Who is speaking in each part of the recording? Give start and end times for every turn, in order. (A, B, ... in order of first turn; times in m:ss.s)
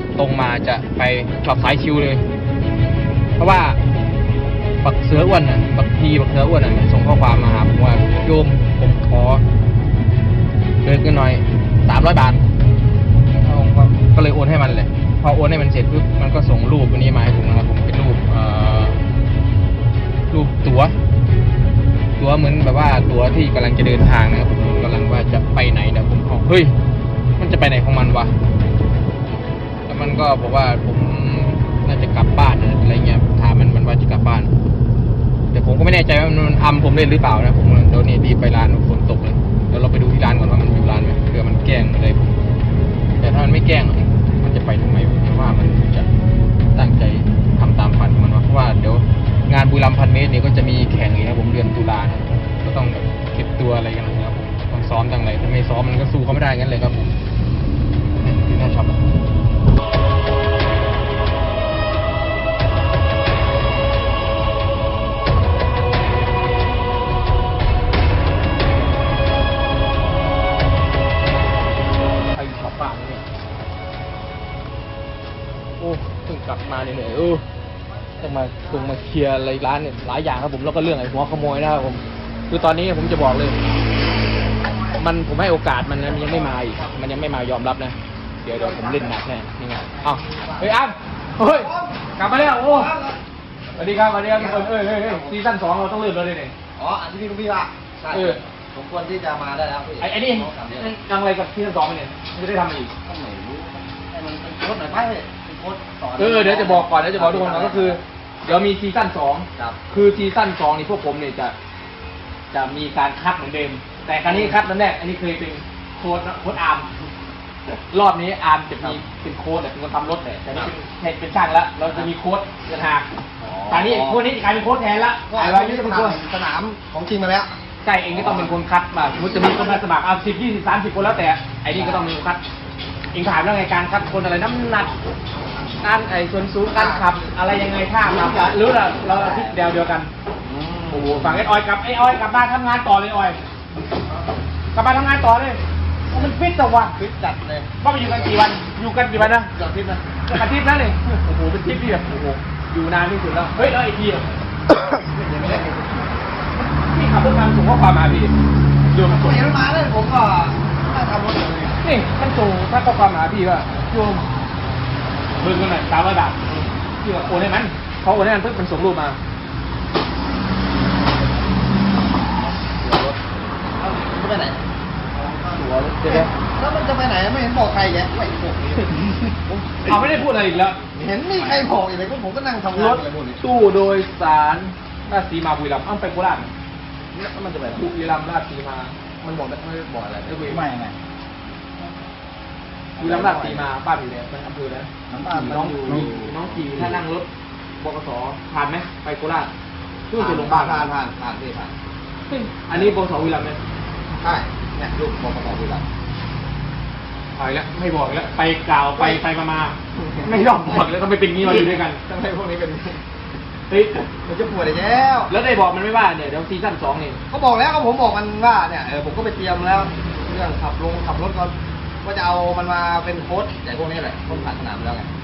0:00.2-0:02.2 A
0:03.4-0:03.8 A
0:04.8-0:09.4 A
0:10.8-0:12.4 A
0:13.3-0:19.0 A
0:20.3-0:21.0 A
0:22.2-0:26.8 A
0:27.4-0:28.4 A
0:29.9-0:34.5 A
0:35.5-0:42.3 A
0:43.2-0:46.1 A
0:46.8-0:57.1 A
0:58.2-0:59.0 A
1:12.4-1:13.2 A
1:15.8-1:17.4 A
1:18.2-1:18.7 B
1:18.2-1:23.6 A
1:25.0-1:32.9 A
1:28.5-1:29.1 B
1:30.3-1:30.6 B
1:31.4-1:33.2 B
1:33.7-1:35.4 B
1:33.8-1:36.5 A
1:36.8-1:40.9 B
1:38.1-1:38.4 A
1:40.0-1:42.9 A
1:43.0-1:48.0 B
1:46.2-1:51.6 A
1:52.5-1:56.9 A
1:54.3-1:54.6 B
1:57.7-2:03.1 A
2:03.4-2:04.2 B
2:03.7-2:06.2 A
2:05.3-2:07.6 B
2:07.8-2:12.4 A
2:08.1-2:08.6 B
2:09.2-2:09.8 B
2:11.7-2:12.1 B
2:13.1-2:14.9 A
2:15.8-2:20.1 A
2:16.7-2:17.4 B
2:18.1-2:19.7 B
2:20.4-2:21.5 B
2:20.9-2:23.4 A
2:24.7-2:25.6 A
2:26.1-2:27.0 A
2:27.0-2:28.2 B
2:27.8-2:29.5 A
2:29.2-2:30.1 B
2:30.3-2:34.3 A
2:34.7-2:36.1 B
2:36.6-2:38.3 A
2:38.9-2:39.5 A
2:39.0-2:41.8 B
2:41.8-2:44.3 A
2:45.4-2:49.2 A
2:52.8-2:53.2 A
2:53.8-3:00.2 B
2:55.6-2:56.3 A
2:59.8-3:00.8 A
3:00.9-3:03.4 B
3:01.4-3:01.7 A
3:02.7-3:06.5 A
3:07.1-3:07.8 B
3:07.7-3:09.0 A
3:09.2-3:11.0 B
3:10.2-3:10.6 A
3:13.0-3:13.7 B
3:13.0-3:17.3 A
3:15.1-3:17.0 B
3:17.8-3:19.5 A
3:20.1-3:20.9 A
3:20.2-3:21.7 B
3:22.3-3:23.6 A
3:24.2-3:25.8 B
3:27.4-3:32.0 A
3:30.0-3:30.9 B
3:31.4-3:33.0 B
3:33.7-3:34.1 A
3:34.2-3:35.3 B
3:35.3-3:37.2 A
3:37.3-3:45.1 B